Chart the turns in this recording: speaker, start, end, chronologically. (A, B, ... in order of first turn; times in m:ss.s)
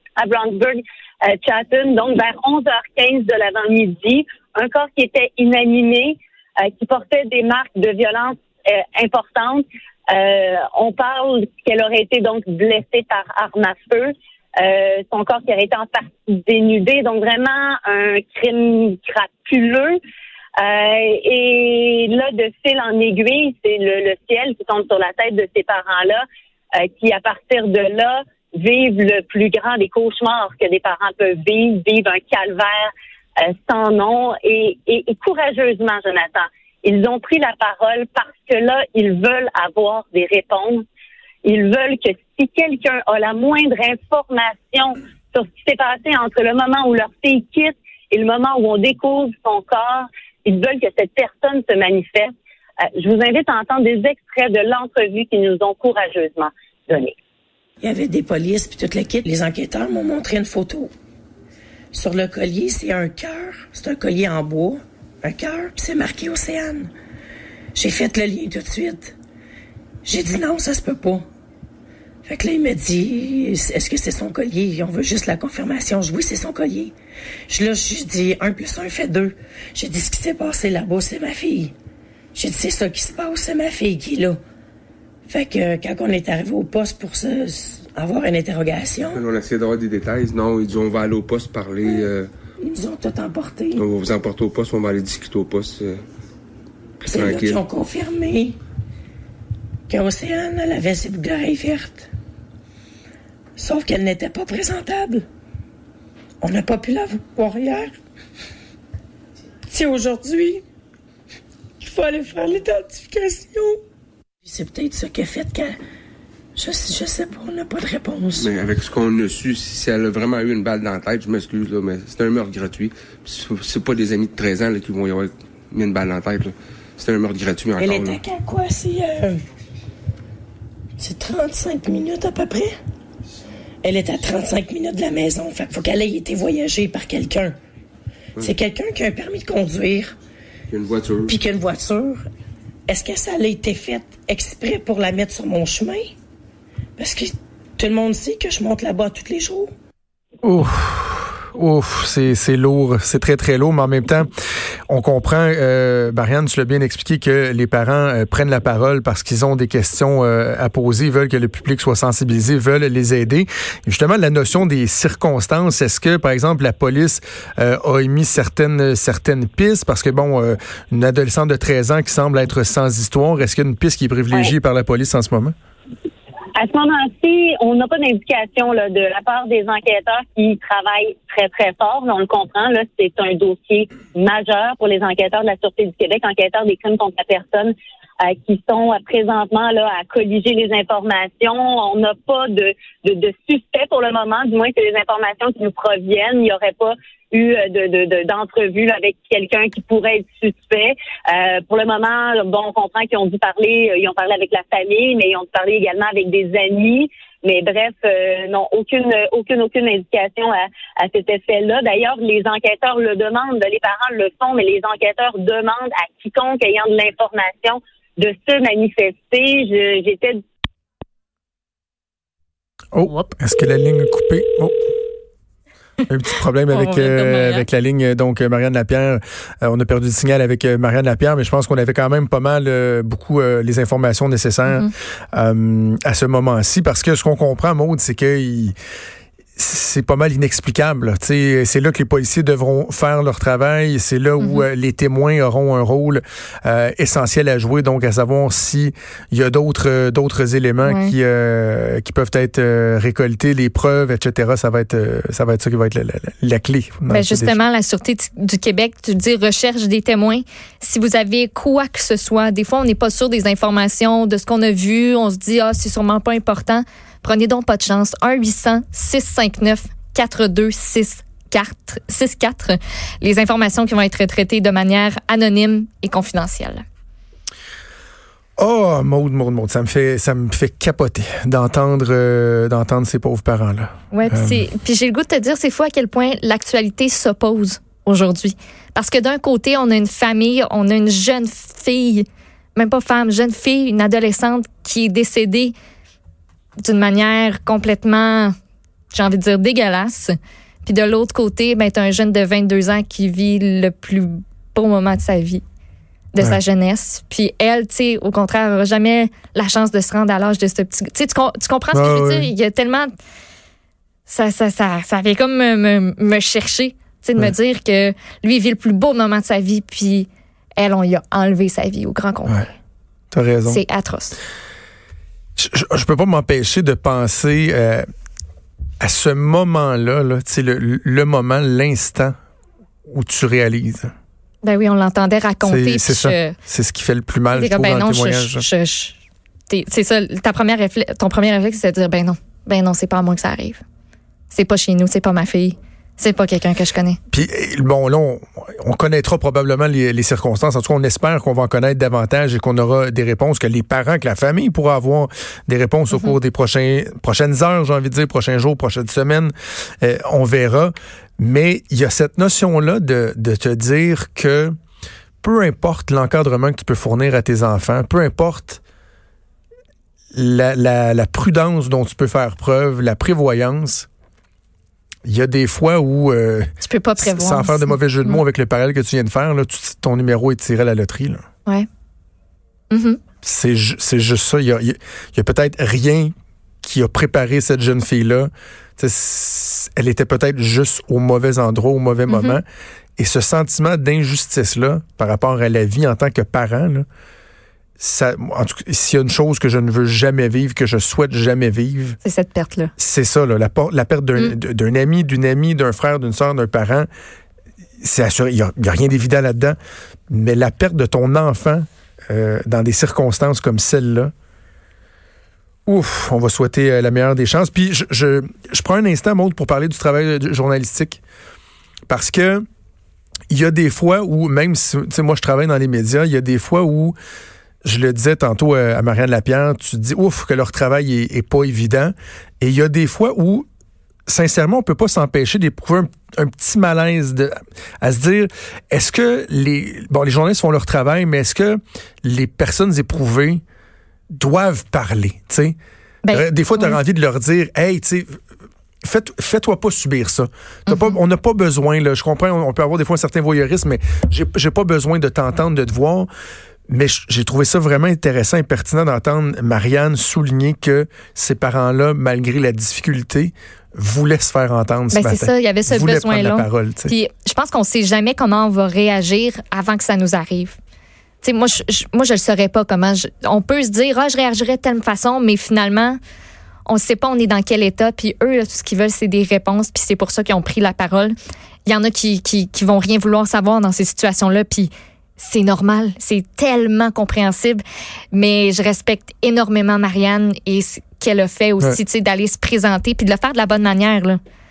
0:00.2-0:20.0 A
0:20.6-0:26.2 A
0:26.8-0:32.9 A
0:33.4-0:40.8 A
0:41.4-0:52.3 A
0:53.0-0:57.1 A
0:57.8-1:00.9 B
1:01.9-1:06.9 B
1:07.7-1:09.2 B
1:10.0-1:11.2 B
1:12.2-1:16.9 B
1:17.5-1:21.7 B
1:22.3-1:24.4 B
1:25.3-1:29.3 B
1:29.1-1:32.3 C
1:31.8-1:32.1 B
1:32.6-1:33.8 B
1:33.8-1:36.0 C
1:37.0-1:37.6 C
1:37.0-1:38.6 B
1:39.9-1:42.1 B
1:43.6-1:45.3 B
1:46.4-1:47.9 B
1:49.7-1:50.6 B
1:51.8-1:53.8 B
1:54.4-1:55.8 B
1:56.6-1:58.5 B
1:58.4-2:08.2 C
2:07.8-2:09.4 B
2:11.0-2:12.7 B
2:13.8-2:17.5 B
2:18.4-2:20.1 B
2:20.7-2:21.3 C
2:21.2-2:22.2 B
2:22.9-2:26.1 B
2:27.0-2:29.7 B
2:30.4-2:34.3 D
2:34.9-2:55.5 D
2:56.6-3:07.7 A
3:08.2-3:40.4 A
3:42.9-3:44.7 D
3:46.1-3:58.7 D
3:46.7-3:47.6 E
3:59.6-4:17.6 D
4:04.4-4:04.6 E
4:10.8-4:11.1 E
4:17.1-4:36.8 E
4:38.6-4:44.6 D
4:44.1-4:55.7 E
4:56.8-4:58.5 E
4:59.1-5:05.6 E
5:06.3-5:13.1 E
5:11.9-5:12.5 D
5:14.3-5:22.7 E
5:23.3-5:23.8 D
5:23.6-5:24.4 E
5:25.6-5:28.0 D
5:29.0-5:32.3 D
5:33.1-5:34.1 D
5:34.6-5:36.6 E
5:35.6-5:38.7 D
5:37.5-5:39.2 E
5:39.7-5:43.8 E
5:44.5-5:47.2 E
5:47.3-6:04.7 D
6:05.4-6:08.8 D
6:10.3-6:14.1 D
6:15.2-6:21.4 D
6:16.8-6:18.4 E
6:22.9-6:23.2 E
6:23.4-6:26.3 D
6:26.8-6:32.6 D
6:32.3-6:32.6 E
6:33.2-6:37.0 D
6:38.0-6:42.2 D
6:42.2-6:42.9 E
6:43.0-6:47.1 D
6:48.0-6:49.8 D
6:50.3-6:54.3 D
6:55.9-7:01.2 D
7:02.1-7:02.6 D
7:03.5-7:07.1 D
7:07.8-7:13.6 D
7:14.3-7:23.6 D
7:24.3-7:25.8 D
7:26.2-7:27.0 E
7:26.3-7:28.4 D
7:29.0-7:36.3 D
7:30.9-7:31.2 E
7:36.9-7:47.1 D
7:45.1-7:50.8 E
7:51.4-7:56.2 E
7:56.8-8:01.3 E
8:01.8-8:14.4 E